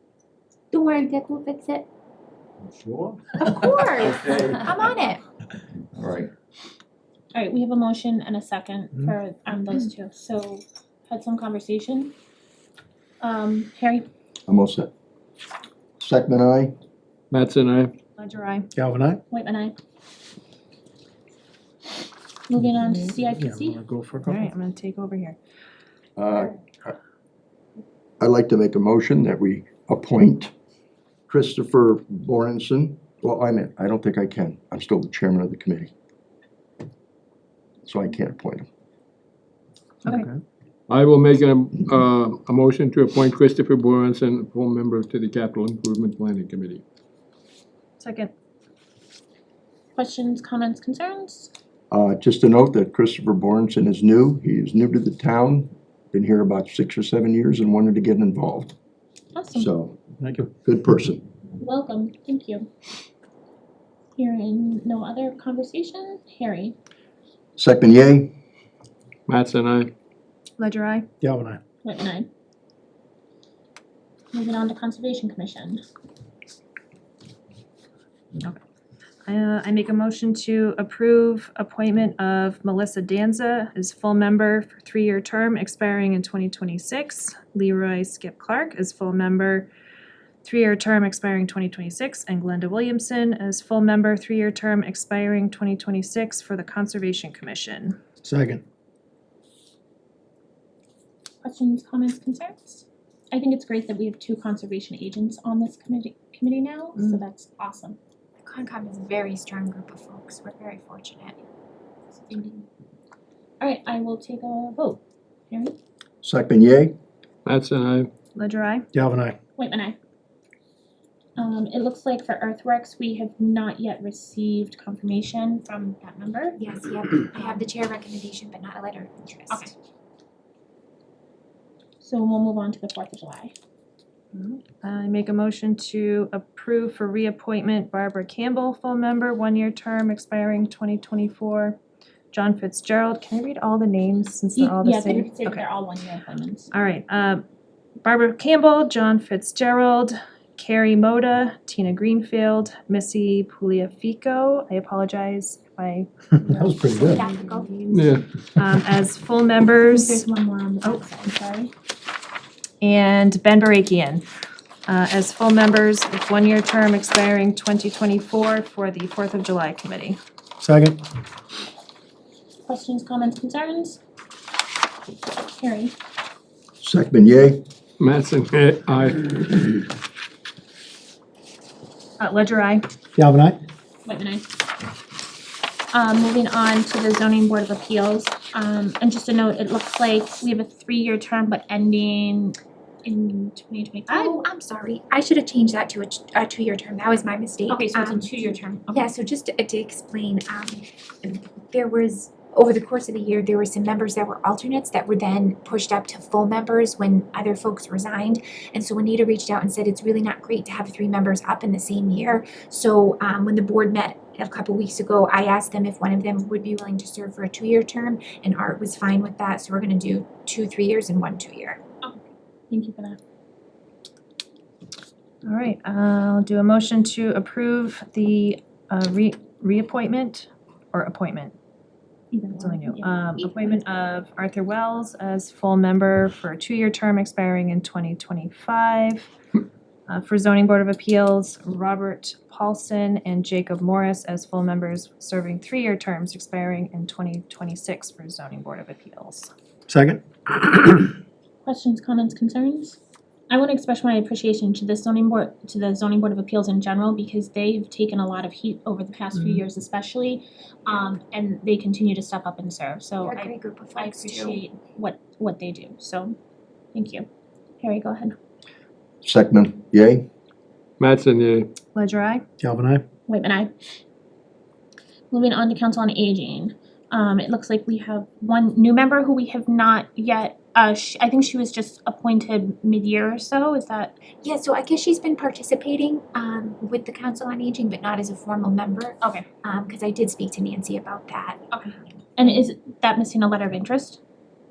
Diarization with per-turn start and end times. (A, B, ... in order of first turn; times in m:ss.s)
0:00.7-0:01.9 A
0:03.4-0:05.2 A
0:05.9-0:06.3 B
0:07.3-0:12.1 C
0:13.2-0:14.1 C
0:14.5-0:14.9 B
0:16.0-0:16.7 B
0:17.3-0:17.9 D
0:18.2-0:18.7 E
0:18.8-0:19.2 F
0:19.3-0:19.7 C
0:22.5-0:23.8 C
0:23.4-0:24.5 F
0:24.2-0:25.4 E
0:26.2-0:27.0 B
0:28.2-0:30.5 B
0:31.3-0:35.9 B
0:37.8-0:38.7 B
0:40.9-0:46.8 D
0:48.0-0:48.3 E
0:49.9-0:51.5 C
0:51.9-0:58.7 B
0:59.3-0:59.7 C
0:59.5-1:00.0 B
1:00.2-1:00.5 F
1:00.6-1:01.2 B
1:01.6-1:02.7 C
1:04.2-1:06.8 C
1:07.6-1:08.3 B
1:09.3-1:09.9 D
1:10.6-1:11.0 E
1:11.2-1:11.6 F
1:11.8-1:12.3 C
1:14.3-1:15.8 C
1:19.2-1:29.7 E
1:30.4-1:38.0 E
1:38.2-1:38.6 F
1:41.4-1:48.0 C
1:47.0-1:47.2 E
1:48.4-1:51.4 A
1:52.1-1:52.6 C
1:53.6-1:55.7 C
1:56.2-1:56.9 B
1:57.4-1:58.1 D
1:58.3-1:58.8 E
1:58.9-1:59.4 F
1:59.6-2:00.0 C
2:01.4-2:06.6 C
2:06.6-2:09.7 A
2:12.0-2:13.5 C
2:14.3-2:21.8 E
2:22.3-2:25.6 E
2:24.5-2:26.7 C
2:26.7-2:27.4 E
2:28.0-2:37.2 E
2:36.4-2:37.3 F
2:37.0-2:38.0 A
2:37.9-2:38.2 D
2:38.5-2:40.2 E
2:39.8-2:41.7 C
2:42.8-2:44.2 E
2:44.9-2:50.2 E
2:50.6-2:51.0 F
2:52.6-2:54.0 C
2:55.4-2:55.9 C
2:56.8-2:57.6 B
2:58.0-2:59.6 D
3:02.2-3:02.8 E
3:03.2-3:03.6 F
3:04.0-3:04.5 C
3:05.9-3:14.4 C
3:14.1-3:18.2 A
3:17.7-3:19.1 C
3:18.9-3:41.8 A
3:42.0-3:43.2 C
3:45.4-3:51.5 E
3:52.3-3:53.8 C
3:52.6-3:59.3 E
4:00.1-4:09.5 E
4:09.9-4:10.2 F
4:11.6-4:13.0 C
4:13.5-4:26.4 C
4:23.2-4:24.6 A
4:26.9-4:27.3 C
4:27.8-4:28.4 C
4:29.2-4:30.2 B
4:31.0-4:31.7 D
4:31.9-4:32.4 E
4:32.6-4:33.0 F
4:33.3-4:33.7 C
4:35.3-4:44.1 C
4:44.4-4:51.6 A
4:49.2-4:49.4 C
4:51.7-4:54.2 C